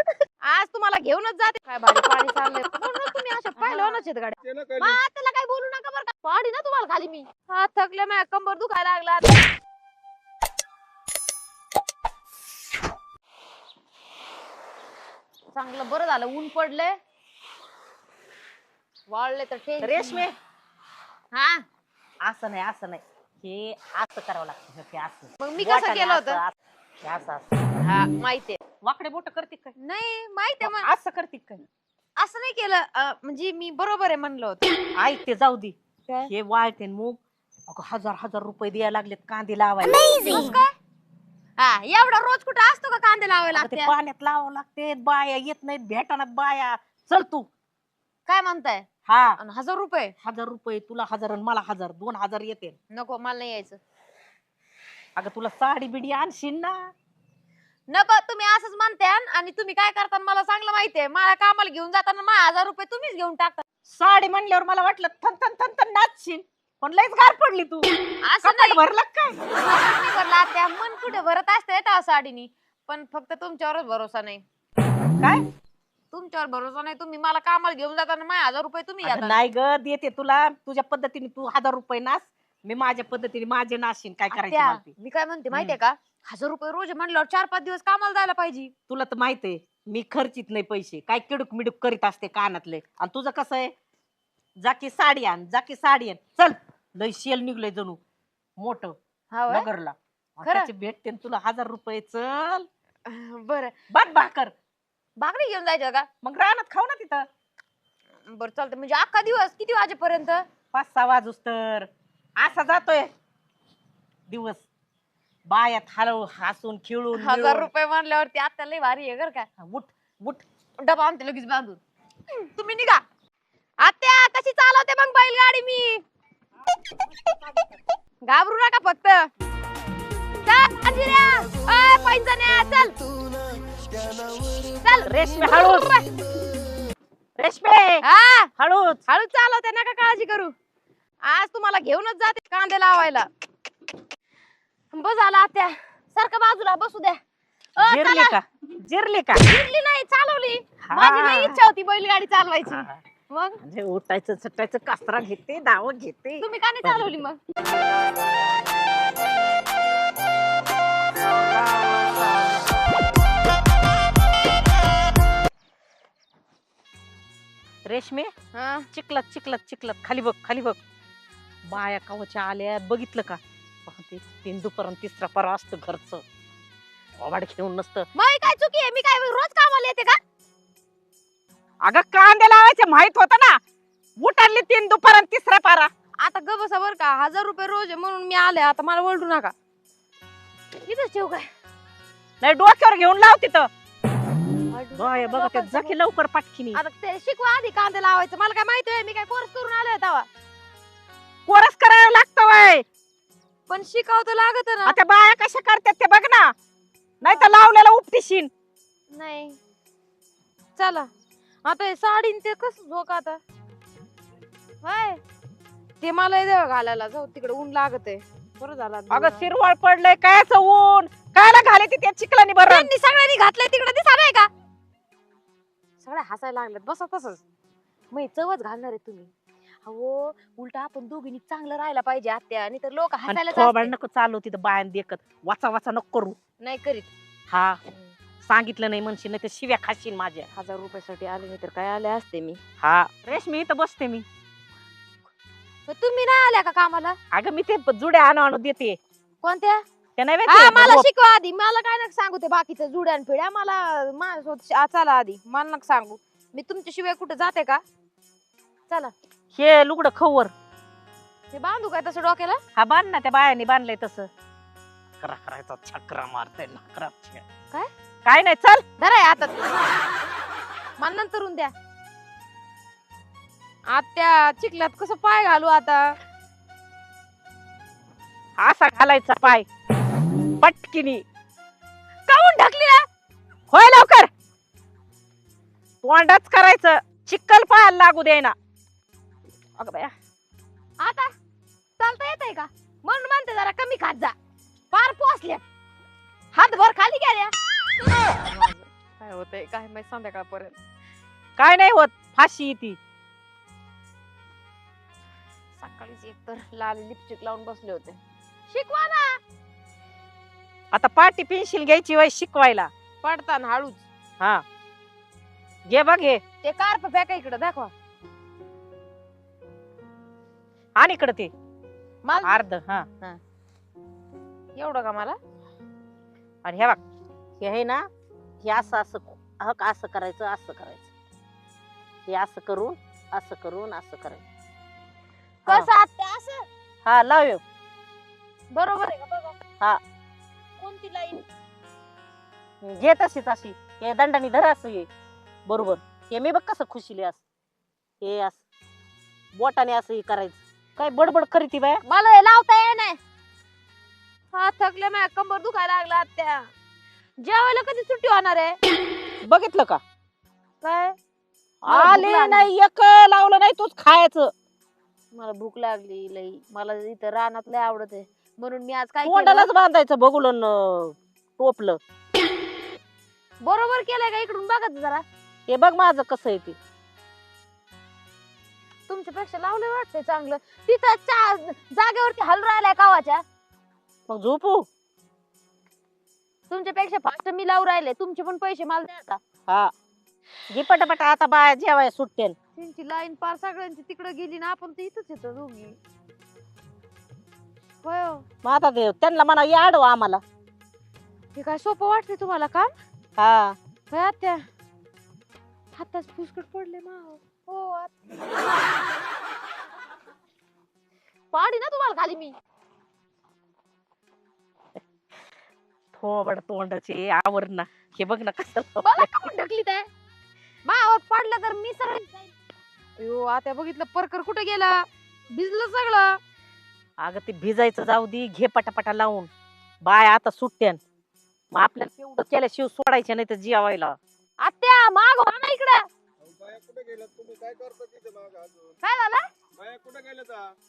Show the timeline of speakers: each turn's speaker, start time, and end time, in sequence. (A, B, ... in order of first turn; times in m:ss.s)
0:00.4-0:09.5 A
0:03.6-0:04.0 B
0:04.4-0:05.0 C
0:15.5-0:17.0 A
0:19.1-0:20.3 A
0:19.8-0:20.4 B
0:21.3-0:21.6 A
0:22.2-0:27.5 B
0:25.4-0:26.4 A
0:27.8-0:28.6 A
0:28.8-0:29.7 B
0:29.8-0:30.9 A
0:30.6-0:31.6 B
0:32.2-0:34.7 A
0:35.0-0:35.7 B
0:36.3-0:37.2 B
0:37.7-0:40.6 B
0:40.0-0:40.7 A
0:41.6-0:43.9 A
0:43.5-0:47.5 B
0:48.2-0:48.9 A
0:49.0-0:49.4 B
0:49.4-0:50.1 A
0:50.2-0:52.8 B
0:52.9-0:53.8 A
0:55.2-0:56.9 B
0:57.9-1:03.6 A
1:03.9-1:07.9 B
1:08.2-1:08.8 A
1:08.4-1:09.4 B
1:09.6-1:14.4 A
1:15.2-1:15.4 B
1:16.1-1:19.4 A
1:19.0-1:24.9 B
1:24.3-1:28.7 A
1:28.9-1:33.7 B
1:34.6-1:38.0 B
1:38.6-1:39.0 B
1:39.3-1:39.7 A
1:39.5-1:42.7 B
1:40.4-1:40.7 A
1:43.0-1:43.7 A
1:43.9-1:44.5 B
1:45.2-1:46.1 A
1:46.2-1:47.2 B
1:48.3-1:50.4 A
1:50.7-1:53.1 B
1:54.3-1:54.6 B
1:55.5-1:57.7 B
1:57.1-1:59.5 A
1:59.6-2:00.4 B
2:00.8-2:01.8 A
2:02.3-2:03.0 A
2:03.8-2:06.0 A
2:08.2-2:09.3 A
2:10.4-2:13.0 A
2:14.8-2:16.1 A
2:15.0-2:16.0 B
2:17.4-2:18.0 B
2:18.0-2:18.5 A
2:18.6-2:19.0 B
2:19.1-2:20.5 A
2:21.2-2:23.3 A
2:24.9-2:27.2 A
2:27.8-2:28.4 A
2:27.8-2:29.4 B
2:29.4-2:33.6 A
2:30.8-2:31.6 B
2:32.7-2:33.0 B
2:33.6-2:37.0 B
2:36.4-2:37.6 A
2:41.4-2:42.2 B
2:47.8-2:48.3 B
2:48.5-2:48.9 A
2:48.9-2:50.8 B
2:51.6-2:56.2 B
2:57.2-2:58.1 B
2:58.1-3:00.2 A
3:01.8-3:03.6 B
3:04.2-3:05.9 B
3:06.2-3:09.5 A
3:10.8-3:11.5 A
3:12.4-3:13.7 B
3:14.7-3:16.0 A
3:14.9-3:16.8 B
3:16.7-3:20.3 A
3:21.5-3:22.8 B
3:23.7-3:25.0 A
3:24.8-3:26.5 B
3:27.2-3:28.5 B
3:27.3-3:27.6 A
3:29.1-3:29.6 A
3:30.8-3:31.1 A
3:31.6-3:33.4 A
3:34.8-3:35.2 A
3:36.0-3:39.5 A
3:39.1-3:42.9 B
3:42.6-3:44.5 A
3:46.0-3:47.4 A
3:48.1-3:49.3 A
3:49.8-3:53.9 A
3:53.3-3:56.4 B
3:56.6-3:57.1 A
3:57.5-3:57.8 B
3:58.4-4:00.5 B
4:00.5-4:02.6 A
4:02.8-4:04.2 B
4:05.9-4:07.2 A
4:07.3-4:09.0 B
4:09.4-4:09.8 A
4:10.2-4:11.1 B
4:10.5-4:17.8 A
4:19.5-4:20.5 B
4:21.5-4:22.6 A
4:22.8-4:24.3 B
4:25.2-4:27.4 B
4:28.2-4:28.8 B
4:29.0-4:29.7 A
4:31.0-4:31.7 A
4:33.9-4:36.2 A
4:38.6-4:39.6 B
4:40.6-4:41.2 B
4:42.3-4:43.0 A
4:43.7-4:44.3 B
4:46.0-4:48.5 B
4:49.8-4:50.1 B
4:51.0-4:51.3 A
4:52.0-4:54.3 A
4:54.9-4:55.6 A
4:56.5-4:57.5 A
4:58.3-5:00.8 A
5:01.6-5:03.0 B
5:05.8-5:09.4 A
5:10.9-5:12.9 B
5:13.2-5:14.0 A
5:15.9-5:16.4 B
5:16.6-5:17.9 A
5:21.0-5:21.5 B
5:22.2-5:22.6 A
5:22.4-5:23.0 B
5:24.8-5:25.4 A
5:26.6-5:27.0 B
5:27.6-5:28.1 B
5:28.6-5:31.1 B
5:32.3-5:34.4 B
5:35.7-5:36.6 A
5:37.0-5:37.6 B
5:38.7-5:39.5 A
5:40.8-5:41.4 A
5:42.8-5:45.1 B
5:45.7-5:47.4 B
5:48.2-5:48.6 B
5:49.5-5:52.0 B
5:52.0-5:53.2 A
5:54.5-5:56.7 A
5:57.4-5:58.8 A
5:59.4-6:00.0 B
6:00.8-6:01.2 A
6:01.8-6:04.5 B
6:01.9-6:02.7 A
6:05.3-6:09.7 A
6:09.2-6:12.0 B
6:13.6-6:15.2 A
6:15.7-6:16.8 B
6:19.1-6:23.4 A
6:24.3-6:24.9 B
6:26.7-6:29.4 A
6:30.7-6:32.6 B
6:32.8-6:36.0 A
6:38.0-6:38.4 A
6:38.6-6:40.4 B
6:41.5-6:42.9 A
6:43.4-6:43.8 B
6:44.1-6:44.6 A
6:46.0-6:48.1 A
6:51.5-6:52.5 A
6:56.1-6:59.4 B
6:59.0-7:00.1 A
7:00.8-7:02.5 A
7:03.2-7:04.9 A
7:05.5-7:06.4 A
7:07.2-7:09.5 B
7:10.0-7:11.0 B
7:11.7-7:14.2 B
7:14.6-7:16.0 A
7:16.4-7:18.9 C
7:19.0-7:19.4 A
7:19.8-7:20.7 C